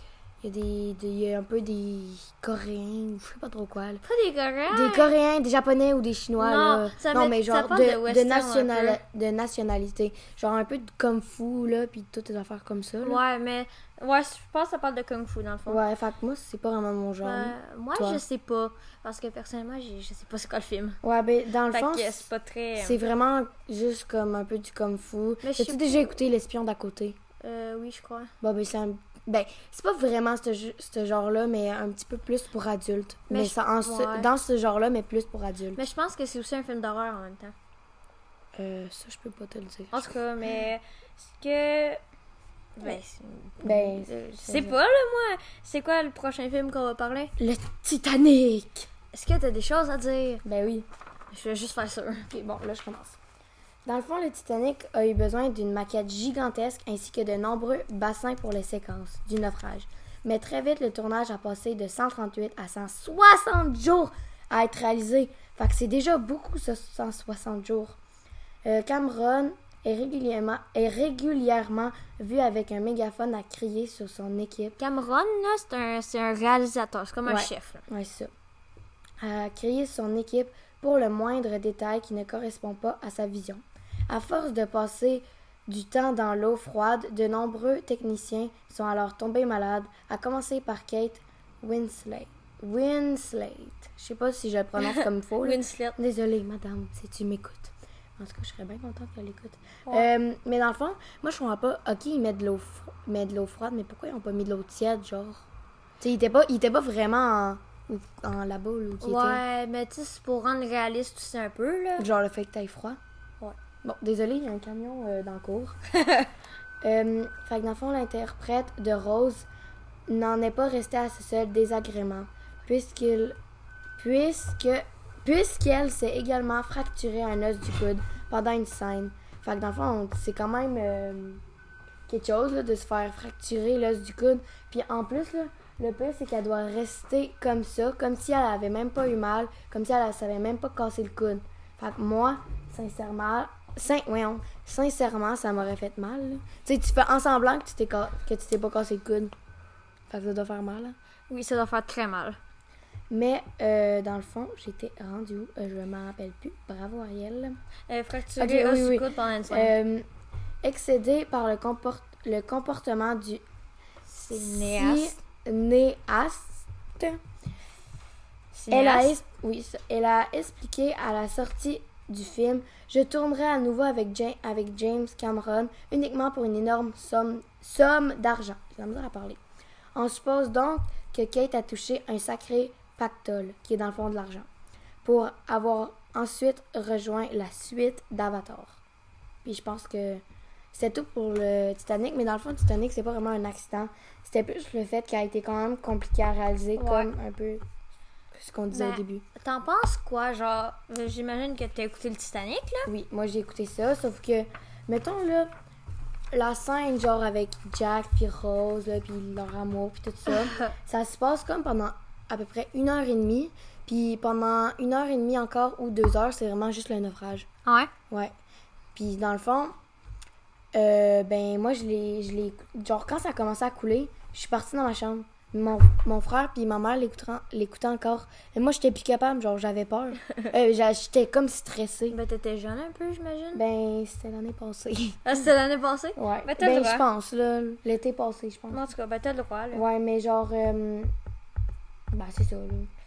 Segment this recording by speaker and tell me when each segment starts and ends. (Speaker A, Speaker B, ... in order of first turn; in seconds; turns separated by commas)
Speaker A: 0.4-4.0, Speaker B: 4.0-5.1, Speaker A: 4.7-13.2, Speaker B: 6.4-9.0, Speaker B: 13.0-15.8, Speaker A: 15.7-18.2, Speaker B: 17.2-21.0, Speaker A: 21.0-27.2, Speaker B: 21.7-23.0, Speaker B: 25.4-26.1, Speaker B: 27.4-28.3, Speaker A: 28.4-35.8, Speaker B: 33.3-34.3, Speaker B: 35.8-37.5, Speaker A: 38.6-40.1, Speaker B: 39.9-42.0, Speaker B: 42.8-47.3, Speaker A: 43.6-44.8, Speaker A: 47.4-48.9, Speaker B: 49.1-50.4, Speaker A: 50.4-50.9, Speaker B: 51.3-52.3, Speaker A: 52.3-53.2, Speaker A: 53.9-68.0, Speaker A: 68.6-74.8, Speaker B: 74.8-77.8, Speaker A: 77.3-78.3, Speaker A: 79.2-105.5, Speaker B: 94.8-96.0, Speaker A: 106.0-109.4, Speaker B: 109.0-112.1, Speaker A: 112.0-113.0, Speaker A: 113.8-115.8, Speaker B: 116.0-116.3, Speaker A: 116.8-119.5, Speaker A: 120.1-123.4, Speaker A: 124.0-131.4, Speaker A: 132.1-149.3, Speaker A: 150.1-150.9, Speaker B: 151.3-152.4, Speaker A: 153.1-157.6, Speaker B: 157.9-159.7, Speaker A: 158.4-160.1, Speaker A: 160.6-163.4, Speaker B: 164.1-165.2, Speaker A: 164.2-167.2, Speaker B: 168.5-169.2, Speaker A: 168.7-179.4, Speaker A: 179.9-184.5, Speaker A: 185.0-188.8, Speaker A: 189.4-190.2, Speaker A: 190.7-197.6, Speaker B: 196.8-197.1, Speaker A: 198.3-199.2, Speaker B: 198.7-202.9, Speaker A: 202.9-205.5, Speaker A: 206.3-217.5, Speaker B: 210.3-210.7, Speaker B: 217.7-217.9, Speaker A: 218.9-219.7, Speaker A: 220.7-232.2, Speaker B: 232.1-233.6, Speaker A: 233.5-235.3, Speaker B: 235.2-237.1, Speaker A: 236.2-238.8, Speaker B: 238.7-239.8, Speaker A: 239.7-241.1, Speaker A: 242.1-242.9